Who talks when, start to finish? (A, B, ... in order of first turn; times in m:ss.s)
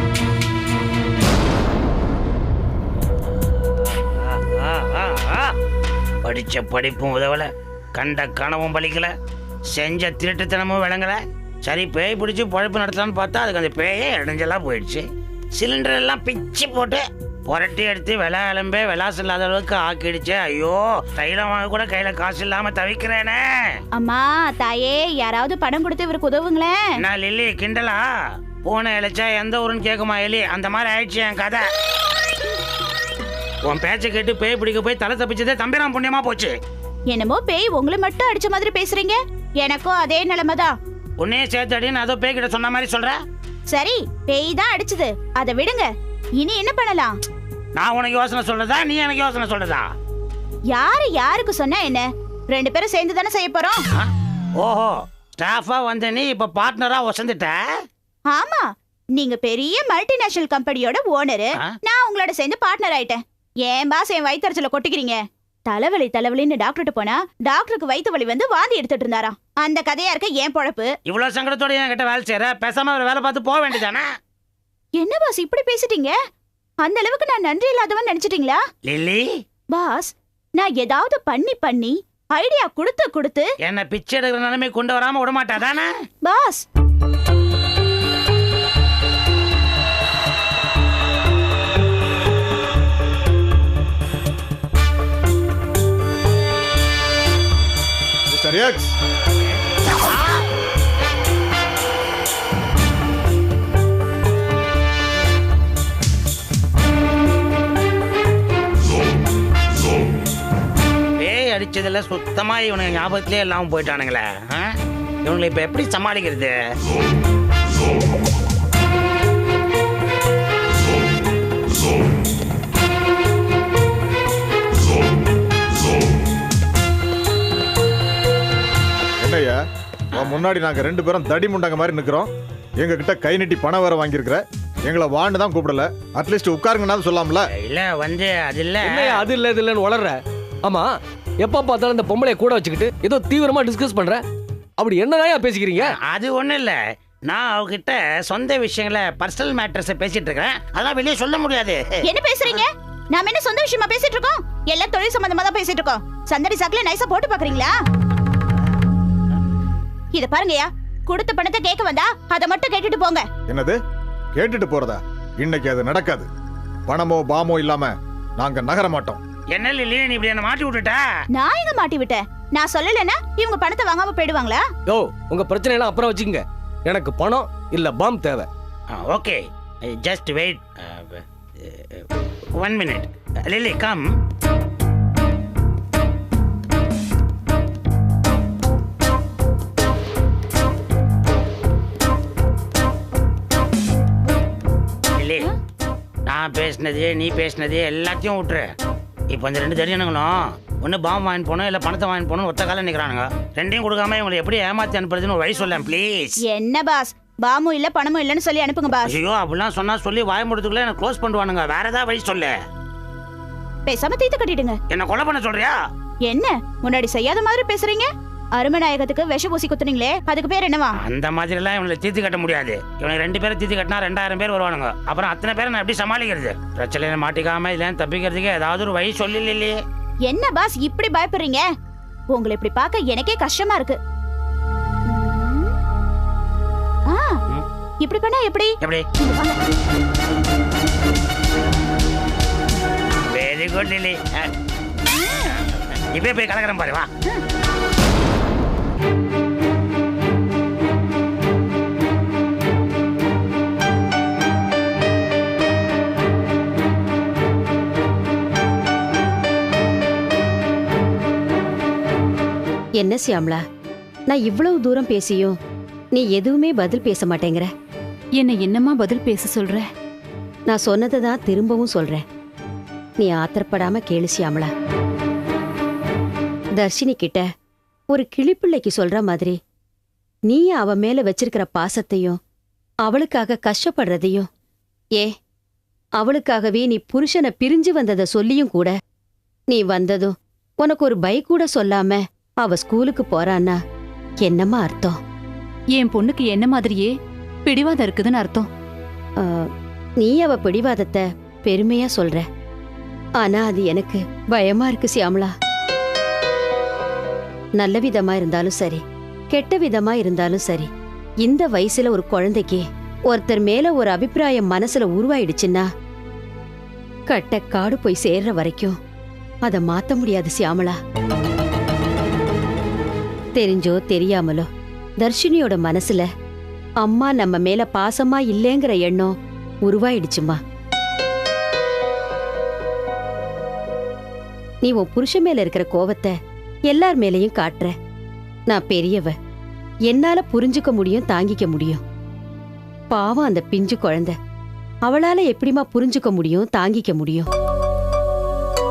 0:04.5-0:05.5 A
0:06.2-0:09.1 A
0:09.7-0:23.4 A
0:23.9-0:26.8 B
0:27.0-0:28.0 A
0:28.6-0:31.6 A
0:33.7-0:36.5 A
0:37.1-0:40.7 B
0:41.2-0:43.2 A
0:43.7-0:47.2 B
0:47.8-0:49.9 A
0:50.7-0:53.8 B
0:53.9-0:57.6 A
0:58.3-0:58.6 B
0:59.2-1:10.9 B
1:11.1-1:14.1 A
1:15.0-1:16.1 B
1:16.8-1:18.6 B
1:18.9-1:19.2 A
1:19.7-1:23.5 B
1:23.6-1:25.9 A
1:26.2-1:26.6 B
1:38.3-1:39.0 C
1:51.2-1:54.7 A
1:55.2-1:56.6 A
2:09.2-2:09.6 C
2:10.1-2:17.5 C
2:10.2-2:10.4 A
2:17.6-2:19.3 A
2:18.8-2:24.2 D
2:24.8-2:26.0 D
2:25.8-2:32.0 A
2:32.0-2:37.8 B
2:40.1-2:43.3 B
2:43.5-2:43.8 C
2:44.4-2:46.3 C
2:46.9-2:49.2 C
2:49.5-2:51.0 A
2:51.3-2:54.6 B
2:54.9-2:58.5 D
2:58.9-3:02.0 A
3:02.6-3:04.1 A
3:15.2-3:15.5 A
3:16.3-3:18.7 A
3:19.3-3:26.4 A
3:26.5-3:29.2 B
3:29.0-3:32.5 A
3:33.9-3:34.8 B
3:34.9-3:35.7 A
3:36.3-3:41.0 B
3:41.0-3:49.8 A
3:50.3-3:51.6 B
3:52.3-3:54.0 B
3:55.1-3:55.7 B
3:57.1-3:57.4 B
3:58.0-3:59.6 B
3:58.8-3:59.1 A
4:03.3-4:04.5 A
4:06.1-4:07.1 A
4:23.0-4:23.6 E
4:24.3-4:25.6 E
4:26.2-4:27.7 E
4:28.4-4:29.9 F
4:30.7-4:32.2 E
4:33.2-4:34.7 E
4:36.8-4:37.5 E
4:38.1-4:39.6 E
4:40.5-4:42.4 E
4:43.1-4:44.5 E
4:46.2-4:48.9 E
4:49.7-4:53.8 E
4:54.4-4:55.2 E
4:56.0-4:57.2 F
4:57.7-4:58.7 F
4:59.4-4:59.7 E
5:00.2-5:02.5 E
5:03.4-5:05.5 E
5:07.8-5:10.9 E
5:11.4-5:15.9 E
5:17.3-5:19.0 E
5:19.7-5:21.0 E
5:23.6-5:24.7 E
5:25.2-5:26.3 E
5:27.0-5:29.3 E
5:29.9-5:30.6 E
5:34.8-5:36.4 E
5:36.9-5:38.0 E
5:38.7-5:39.4 E
5:40.1-5:42.0 E
5:43.1-5:44.4 E
5:45.1-5:47.5 E